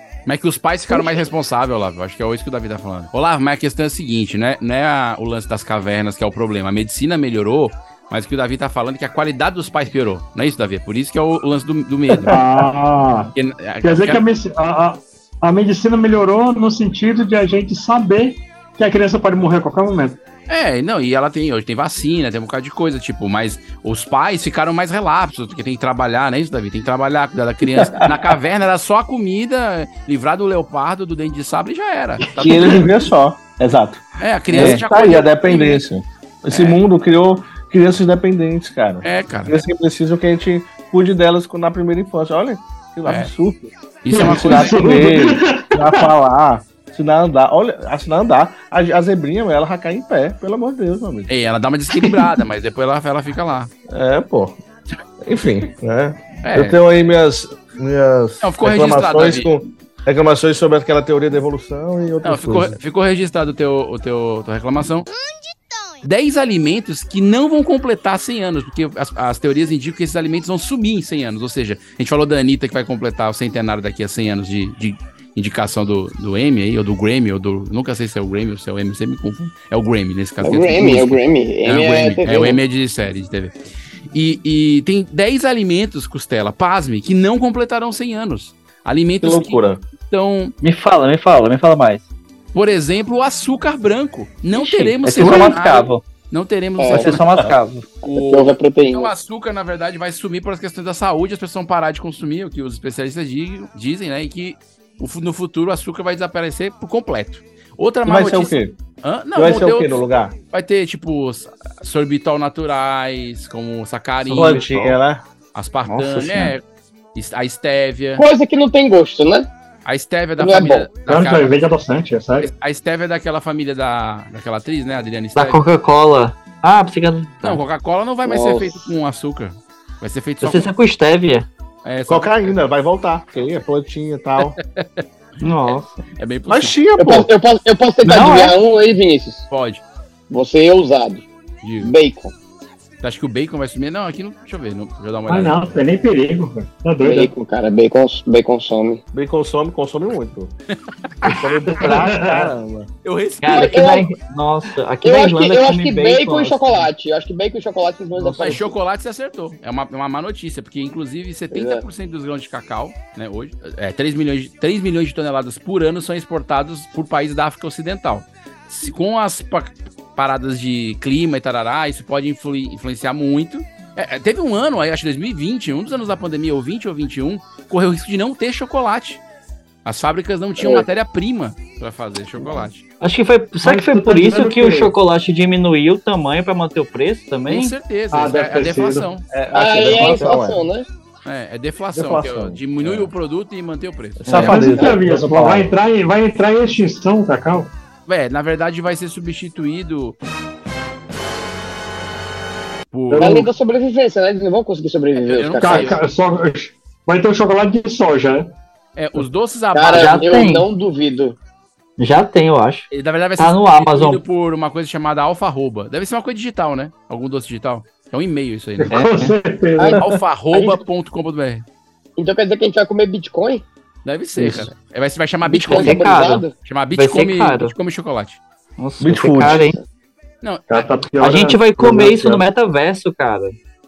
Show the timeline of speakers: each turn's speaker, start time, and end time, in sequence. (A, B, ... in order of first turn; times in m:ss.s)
0:00.2-0:12.4 A
0:00.9-0:01.2 B
0:12.2-0:13.3 C
0:13.3-0:14.2 A
0:13.8-0:20.2 C
0:20.5-0:32.9 A
0:27.6-0:28.3 D
0:32.3-0:51.3 D
0:34.2-0:35.8 A
0:34.5-0:34.8 E
0:36.5-0:36.8 A
0:39.0-0:39.6 A
0:43.0-0:43.3 A
0:44.0-0:45.1 A
0:44.1-0:46.1 C
0:51.3-0:53.7 A
0:53.9-0:54.6 D
0:55.2-1:02.8 D
0:56.4-0:56.8 A
0:58.4-0:59.5 A
1:02.2-1:05.1 A
1:06.0-1:23.5 A
1:20.4-1:22.6 B
1:24.1-1:30.5 A
1:29.2-1:29.8 D
1:30.6-1:32.1 E
1:32.5-1:37.2 A
1:34.5-1:36.0 E
1:36.8-1:37.1 B
1:36.9-1:37.8 E
1:38.0-1:50.0 A
1:38.0-1:39.1 B
1:48.0-1:48.7 D
1:49.3-1:50.3 D
1:50.5-1:54.7 A
1:54.2-1:54.9 E
1:54.3-1:55.2 D
1:55.5-1:56.6 A
1:55.9-1:56.5 E
1:57.1-1:58.2 A
1:58.2-1:59.5 B
1:59.8-2:01.6 A
2:00.4-2:00.9 B
2:01.0-2:02.5 C
2:02.4-2:05.6 A
2:05.3-2:07.6 E
2:07.4-2:10.7 A
2:08.2-2:08.9 B
2:10.4-2:11.5 E
2:11.8-2:12.6 A
2:12.1-2:14.6 D
2:14.7-2:15.0 A
2:15.4-2:16.0 E
2:15.6-2:16.8 A
2:16.5-2:17.3 D
2:17.0-2:19.5 B
2:18.0-2:18.6 E
2:19.5-2:19.8 A
2:20.3-2:21.2 B
2:21.6-2:21.9 A
2:21.8-2:22.3 B
2:23.0-2:25.7 A
2:25.3-2:27.3 C
2:27.0-2:29.0 B
2:29.1-2:30.5 D
2:31.2-2:32.9 D
2:31.7-2:32.4 C
2:31.8-2:32.3 E
2:33.0-2:33.9 A
2:33.4-2:36.9 E
2:33.5-2:34.1 B
2:35.0-2:38.7 B
2:38.4-2:59.2 A
2:41.5-2:41.8 B
2:59.8-3:02.8 A
3:00.6-3:00.9 B
3:03.0-3:07.7 E
3:03.6-3:04.9 C
3:07.5-3:09.2 A
3:08.1-3:09.1 C
3:09.3-3:10.6 D
3:09.5-3:10.9 B
3:10.0-3:10.2 E
3:11.2-3:14.5 A
3:11.9-3:13.1 D
3:14.2-3:15.7 D
3:14.2-3:14.7 E
3:14.3-3:17.7 C
3:18.1-3:20.2 A
3:22.9-3:23.4 A
3:23.1-3:23.5 C
3:23.2-3:26.0 B
3:25.2-3:26.0 A
3:25.6-3:28.5 C
3:29.0-3:30.3 A
3:29.7-3:31.4 B
3:29.9-3:30.6 E
3:32.0-3:34.2 E
3:32.9-3:39.0 A
3:38.8-3:40.0 C
3:38.9-3:39.3 E
3:39.8-3:40.8 B
3:39.9-3:41.6 A
3:42.2-3:43.6 B
3:44.0-3:48.4 A
3:44.4-3:44.7 D
3:45.4-3:46.5 B
3:45.7-3:47.7 E
3:48.8-3:49.8 E
3:49.0-3:49.7 D
3:49.4-3:49.8 B
3:50.4-3:50.9 A
3:50.7-3:52.4 C
3:51.2-3:53.6 E